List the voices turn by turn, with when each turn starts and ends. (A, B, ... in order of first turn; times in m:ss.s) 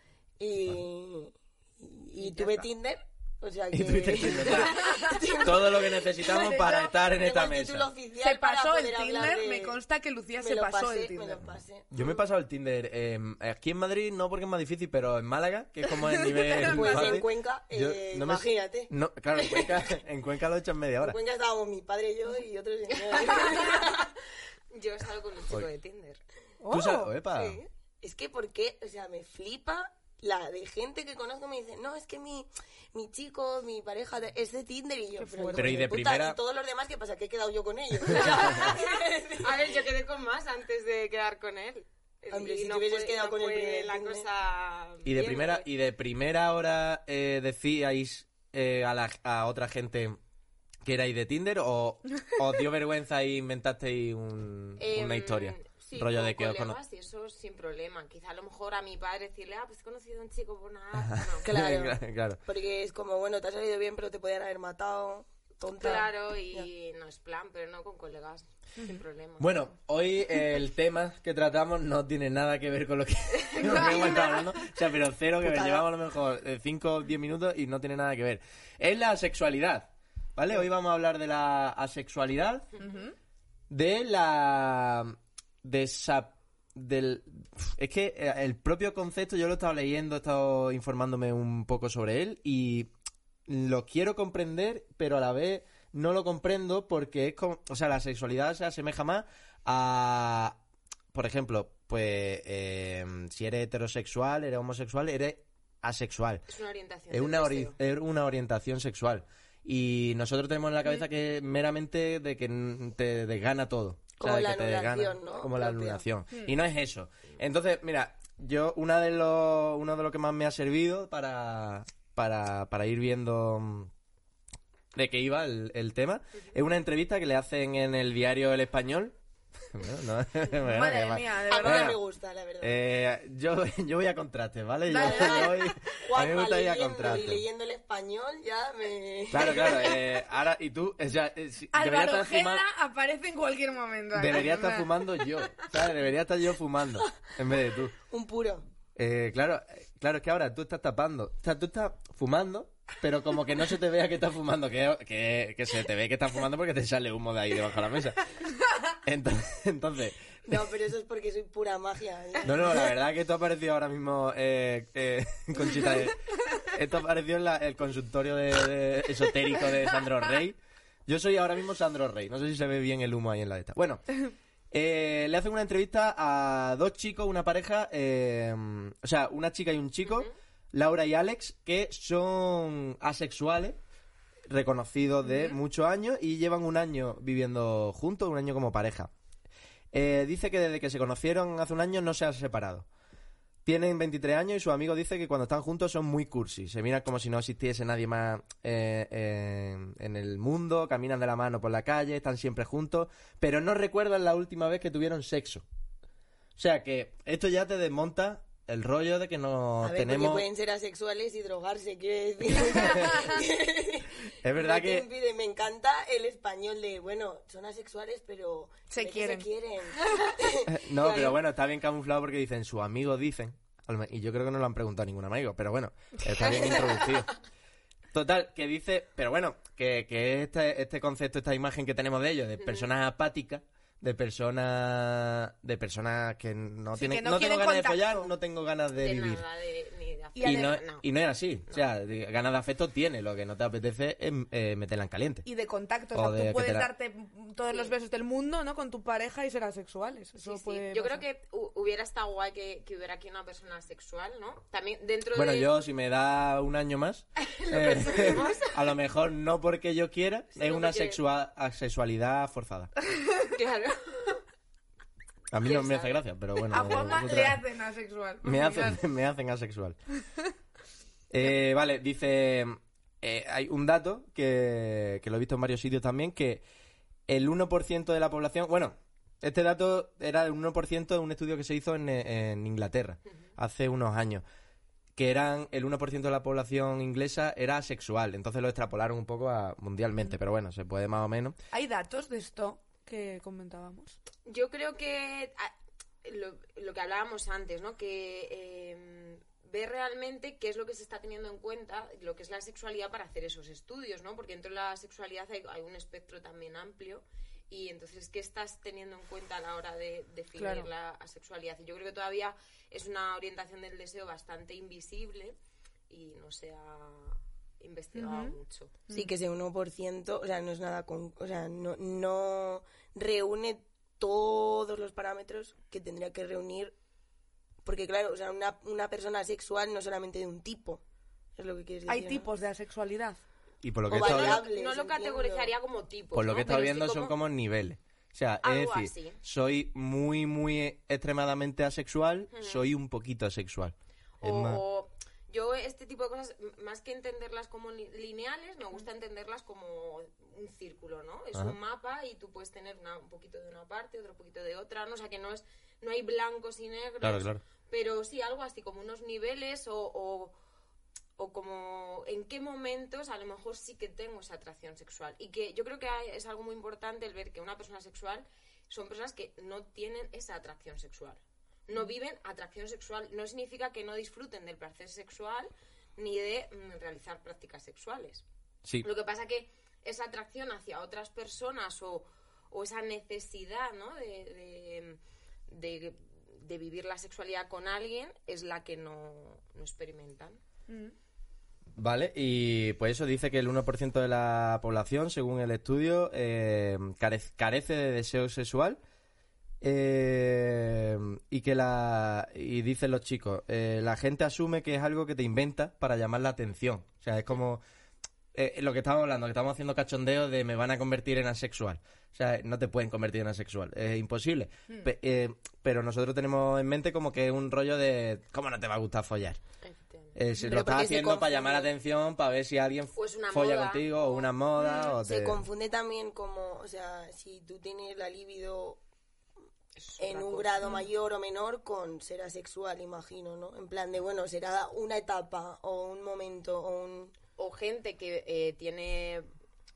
0:00.4-0:09.8 A
0:03.7-0:07.9 B
0:06.3-0:06.9 C
0:08.2-0:11.4 C
0:10.4-0:12.2 A
0:11.9-0:21.2 B
0:16.5-0:17.1 C
0:16.6-0:19.9 A
0:21.0-0:24.1 A
0:23.1-0:23.9 D
0:24.7-0:26.2 D
0:26.6-0:27.1 C
0:26.7-0:27.6 B
0:27.4-0:27.6 D
0:28.0-0:39.7 A
0:35.2-0:35.8 C
0:35.5-0:36.4 B
0:38.2-0:38.6 D
0:39.4-0:45.7 D
0:42.3-0:44.3 A
0:45.0-0:50.2 B
0:50.8-0:56.8 B
0:54.8-1:01.5 D
1:01.0-1:02.4 B
1:01.4-1:06.7 A
1:05.8-1:09.5 D
1:09.4-1:22.7 B
1:15.4-1:15.8 A
1:22.8-1:23.1 C
1:23.7-1:32.9 B
1:33.5-1:40.6 B
1:41.1-1:46.4 B
1:46.5-1:47.8 D
1:47.1-2:03.9 B
1:54.2-1:56.0 A
2:04.9-2:09.2 B
2:09.7-2:12.0 B
2:10.6-2:12.0 C
2:11.5-2:12.8 A
2:12.6-2:17.4 B
2:14.9-2:15.7 C
2:15.0-2:20.0 A
2:19.3-2:22.6 B
2:21.7-2:24.9 C
2:24.2-2:28.0 B
2:28.1-2:28.7 A
2:29.0-2:38.2 B
2:39.0-2:40.6 B
2:40.5-2:42.9 A
2:42.4-2:54.2 B
2:54.7-3:03.8 B
3:00.0-3:00.3 D
3:04.5-3:09.1 B
3:05.2-3:05.6 C
3:09.9-3:12.9 B
3:13.6-3:25.6 B
3:26.6-3:30.5 B
3:29.8-3:41.4 A
3:32.7-3:33.3 B
3:34.4-3:35.1 B
3:38.9-3:39.5 C
3:40.7-3:47.3 B
3:46.4-3:46.8 A
3:48.1-3:59.4 B
3:52.6-3:52.9 D
3:56.9-3:58.3 C
3:59.0-4:01.0 D
4:00.4-4:00.8 C
4:00.4-4:05.4 B
4:05.4-4:11.2 C
4:06.1-4:06.9 B
4:10.4-4:15.7 D
4:15.3-4:22.9 B
4:17.4-4:18.7 D
4:20.6-4:21.2 D
4:23.5-4:24.4 D
4:25.5-4:27.6 B
4:25.6-4:26.2 D
4:26.7-4:29.0 C
4:28.4-4:30.0 B
4:31.3-4:36.6 B
4:37.3-4:44.4 B
4:45.2-4:51.6 B
4:51.7-4:54.2 C
4:54.5-5:15.6 D
5:10.6-5:10.9 C
5:16.1-5:18.9 D
5:18.2-5:18.6 C
5:19.1-5:27.0 A
5:27.8-5:31.0 A
5:31.6-5:32.4 A
5:32.1-5:33.4 C
5:33.8-5:34.6 B
5:34.1-5:35.7 A
5:34.1-5:37.4 D
5:36.3-5:44.8 B
5:38.6-5:39.4 D
5:42.5-5:42.9 D
5:44.4-6:00.6 D
5:57.2-5:57.6 B
6:01.4-6:18.4 D
6:19.0-6:30.6 D
6:32.0-6:39.0 B
6:39.8-6:47.8 B
6:48.5-6:59.6 B
6:59.8-7:00.4 D
7:00.4-7:05.6 B
7:00.6-7:01.9 A
7:03.2-7:04.5 D
7:05.2-7:09.0 A
7:10.0-7:11.0 D
7:10.2-7:17.4 A
7:17.6-7:19.5 D